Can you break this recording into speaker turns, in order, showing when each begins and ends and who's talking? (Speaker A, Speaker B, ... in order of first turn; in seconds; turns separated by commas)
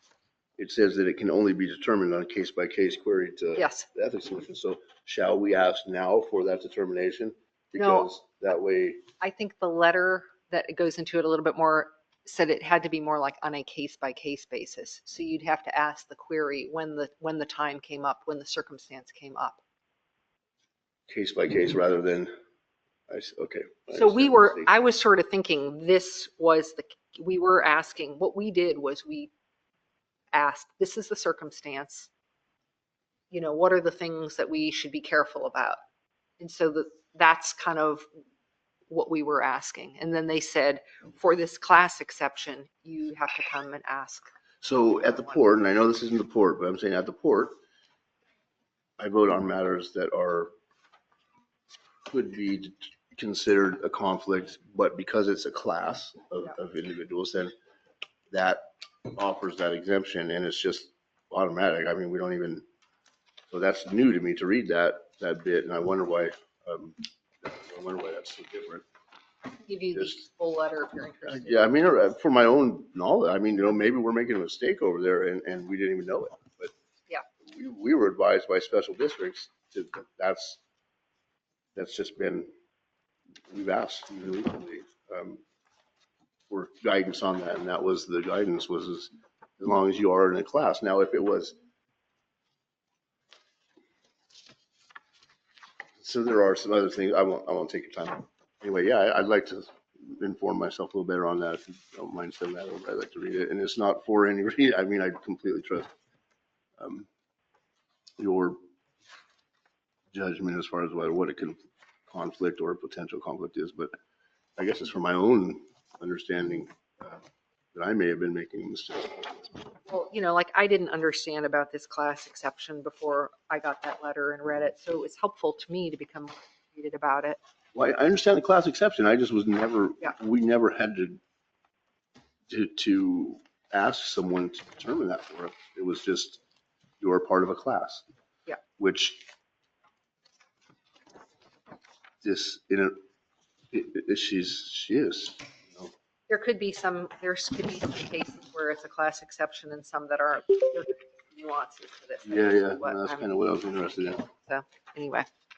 Speaker A: 0.6-9.0, Speaker B: 3.6-3.9, Speaker B: 7.8-8.1, Speaker B: 9.2-19.6, Speaker A: 21.1-22.3, Speaker A: 23.1-24.8, Speaker B: 23.9-29.3, Speaker B: 30.3-32.1, Speaker B: 33.3-35.8, Speaker B: 36.4-38.1, Speaker B: 38.9-44.3, Speaker A: 44.6-47.6, Speaker A: 49.0-50.5, Speaker A: 52.1-57.5, Speaker A: 58.3-62.6, Speaker A: 63.5-68.8, Speaker B: 69.7-71.8, Speaker A: 71.3-76.7, Speaker A: 77.4-80.6, Speaker A: 81.8-82.5, Speaker A: 83.5-85.4, Speaker A: 86.5-91.6, Speaker A: 96.0-105.9, Speaker A: 106.8-107.1, Speaker A: 108.2-108.6, Speaker A: 110.1-113.9, Speaker A: 114.6-117.2, Speaker A: 117.7-119.5, Speaker B: 119.8-127.4, Speaker A: 127.7-131.2, Speaker A: 132.5-136.4, Speaker A: 137.0-138.1, Speaker A: 138.8-139.3, Speaker A: 142.2-143.0, Speaker A: 143.7-145.9, Speaker B: 146.3-153.3, Speaker A: 152.2-154.3, Speaker B: 154.0-155.3